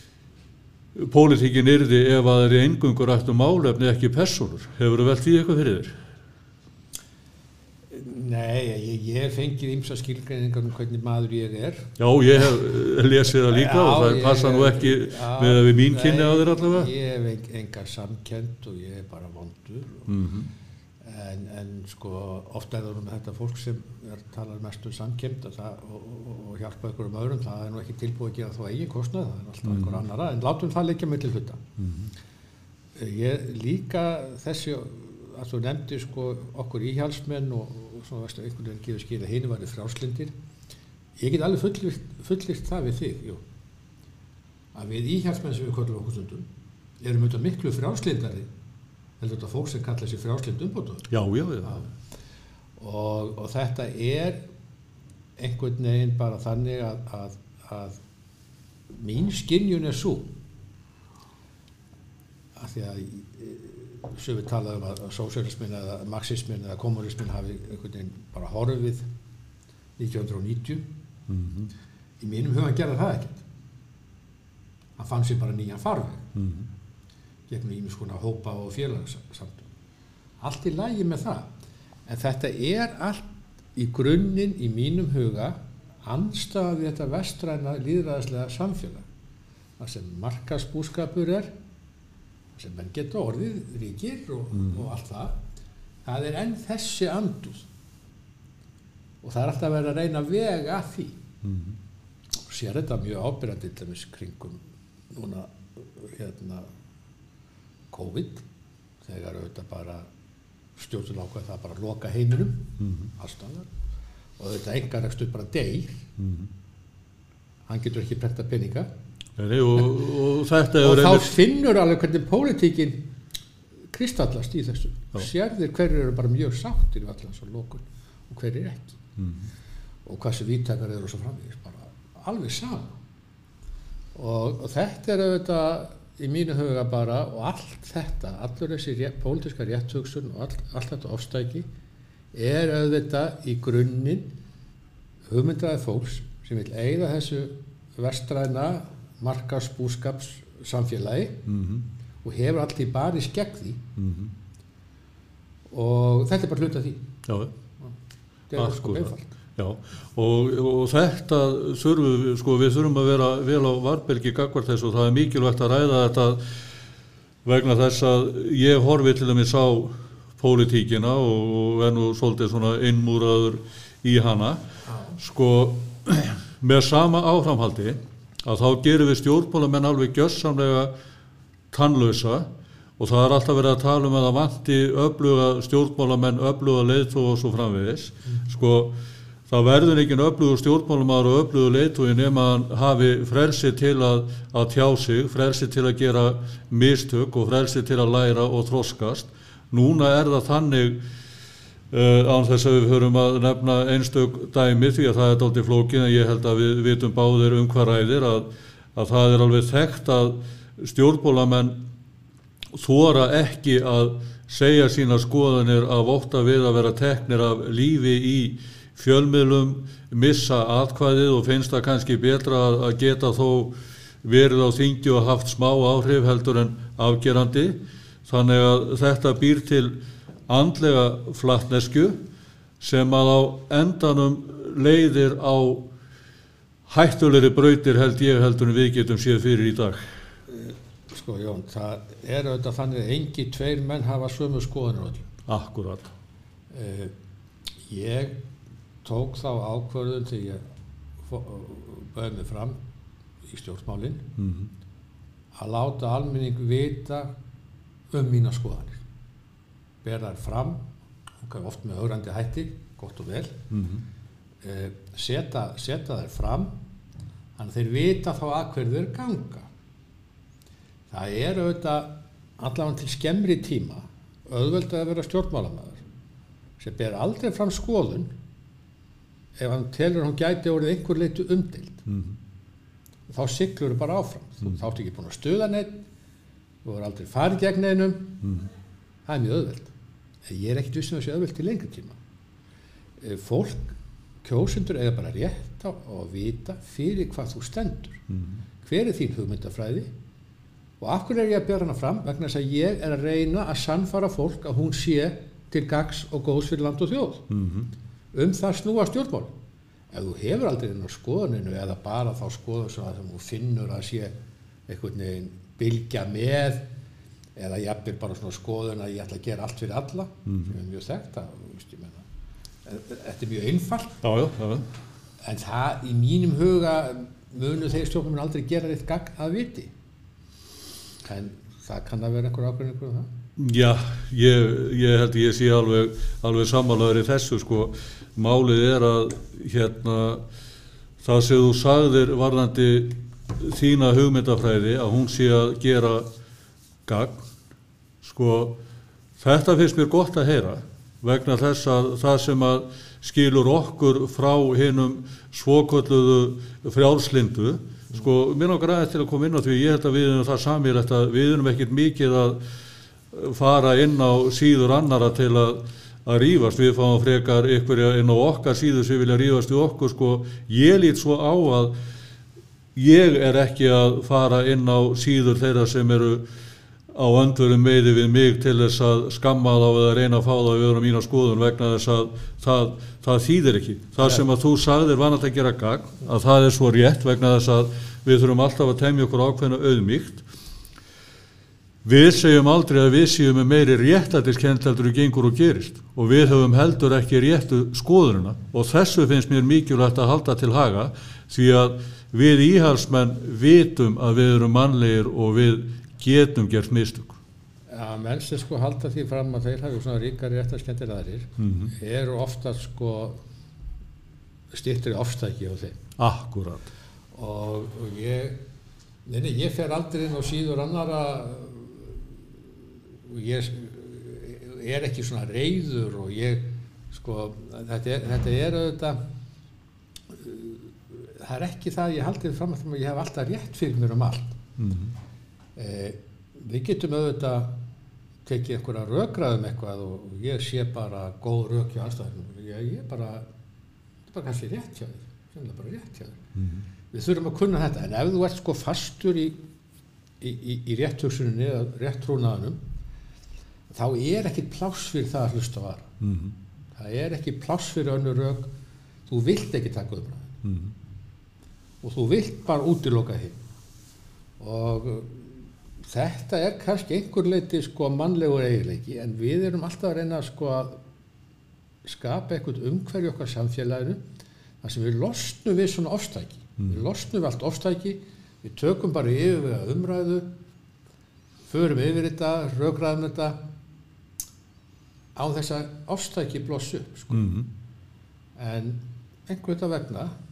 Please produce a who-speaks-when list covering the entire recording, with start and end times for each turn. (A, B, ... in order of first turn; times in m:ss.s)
0:01.0-0:05.9 A
0:07.9-0:11.9 B
0:12.0-0:16.9 A
0:13.3-0:20.1 B
0:20.1-0:20.5 A
0:21.0-0:31.6 B
0:29.7-0:30.0 A
0:31.8-0:32.1 A
0:33.0-0:40.3 B
0:41.2-0:43.4 B
0:44.7-0:46.5 B
0:47.0-0:48.5 B
0:49.2-0:51.1 B
0:51.1-0:51.8 A
0:52.8-0:54.4 B
0:55.4-0:58.0 B
0:58.9-1:00.3 B
1:02.6-1:09.0 B
1:10.0-1:10.8 B
1:11.3-1:11.7 A
1:12.2-1:13.4 B
1:15.0-1:16.2 B
1:16.4-1:16.7 A
1:17.5-1:19.7 B
1:20.4-1:21.5 B
1:22.0-1:29.0 B
1:29.8-1:31.5 B
1:32.5-1:35.4 B
1:36.0-1:37.6 B
1:39.2-1:41.2 B
1:41.4-1:41.8 A
1:42.5-1:44.6 B
1:45.1-1:46.6 B
1:47.9-1:48.4 B
1:49.0-1:50.1 B
1:50.8-1:53.7 B
1:52.8-1:53.1 A
1:54.4-1:56.0 B
1:56.2-1:56.5 A
1:57.7-1:58.9 B
1:59.4-2:01.3 A
2:00.8-2:03.1 B
2:03.9-2:09.0 B
2:09.2-2:09.5 A
2:10.0-2:13.0 B
2:14.1-2:21.6 B
2:22.3-2:24.3 B
2:25.3-2:31.4 B
2:31.5-2:31.8 A
2:32.2-2:33.8 B
2:34.0-2:34.3 A
2:35.7-2:37.0 B
2:37.2-2:37.5 A
2:38.5-2:39.3 B
2:38.5-2:46.4 A
2:47.4-2:54.6 A
2:55.2-3:00.9 A
3:01.7-3:02.5 A
3:03.0-3:08.9 A
3:09.5-3:21.0 A
3:21.9-3:31.8 A
3:32.7-3:50.0 A
3:50.5-3:52.2 A
3:52.8-3:55.9 A
3:56.9-4:00.0 A
4:01.1-4:05.3 B
4:05.5-4:06.1 A
4:06.7-4:07.1 B
4:07.9-4:08.4 B
4:09.0-4:10.6 B
4:11.2-4:12.8 B
4:13.4-4:14.2 B
4:14.4-4:14.7 A
4:15.5-4:17.3 B
4:18.1-4:19.0 B
4:20.0-4:20.8 B
4:21.4-4:23.5 B
4:23.7-4:24.0 A
4:24.6-4:26.7 B
4:27.6-4:29.7 B
4:31.1-4:36.0 B
4:36.8-4:38.3 B
4:39.6-4:42.0 B
4:42.1-4:42.4 A
4:43.3-4:46.0 B
4:46.8-4:48.4 B
4:48.4-4:48.7 A
4:49.2-4:49.9 B
4:50.4-4:52.2 B
4:53.2-4:58.2 B
4:58.3-4:58.6 A
4:58.8-5:00.1 B
5:01.0-5:07.5 B
5:07.5-5:07.9 A
5:08.3-5:09.5 B
5:10.1-5:14.3 B
5:14.9-5:16.8 B
5:17.6-5:22.2 B
5:20.4-5:20.7 A
5:22.8-5:24.2 B
5:24.2-5:24.8 A
5:25.4-5:29.9 B
5:31.2-5:33.3 B
5:33.6-5:40.4 A
5:41.2-5:46.3 A
5:47.0-5:47.4 A
5:48.2-5:48.8 A
5:49.4-6:02.6 A
6:03.3-6:11.9 A
6:12.9-6:16.4 A
6:17.1-6:30.4 A
6:32.0-6:47.4 A
6:47.9-6:53.4 B
6:51.6-6:51.9 A
6:54.7-6:56.0 B
6:56.2-6:56.9 A
6:57.3-6:58.6 B
6:59.2-7:02.2 B
7:03.2-7:09.2 B
7:10.3-7:14.6 B
7:14.8-7:15.1 A
7:15.8-7:17.7 B
7:18.4-7:23.4 B
7:24.3-7:26.4 B
7:26.6-7:26.8 A
7:27.1-7:29.6 B
7:30.4-7:32.8 B
7:33.9-7:36.1 B
7:36.2-7:36.6 A
7:36.9-7:38.7 B
7:39.3-7:40.6 B
7:40.6-7:40.9 A
7:42.0-7:43.6 B
7:44.6-7:45.5 B
7:46.0-7:51.0 B
7:52.0-7:54.2 B
7:54.8-8:00.5 B
8:01.7-8:03.6 B
8:05.3-8:07.5 B
8:07.3-8:07.7 A
8:08.6-8:10.3 B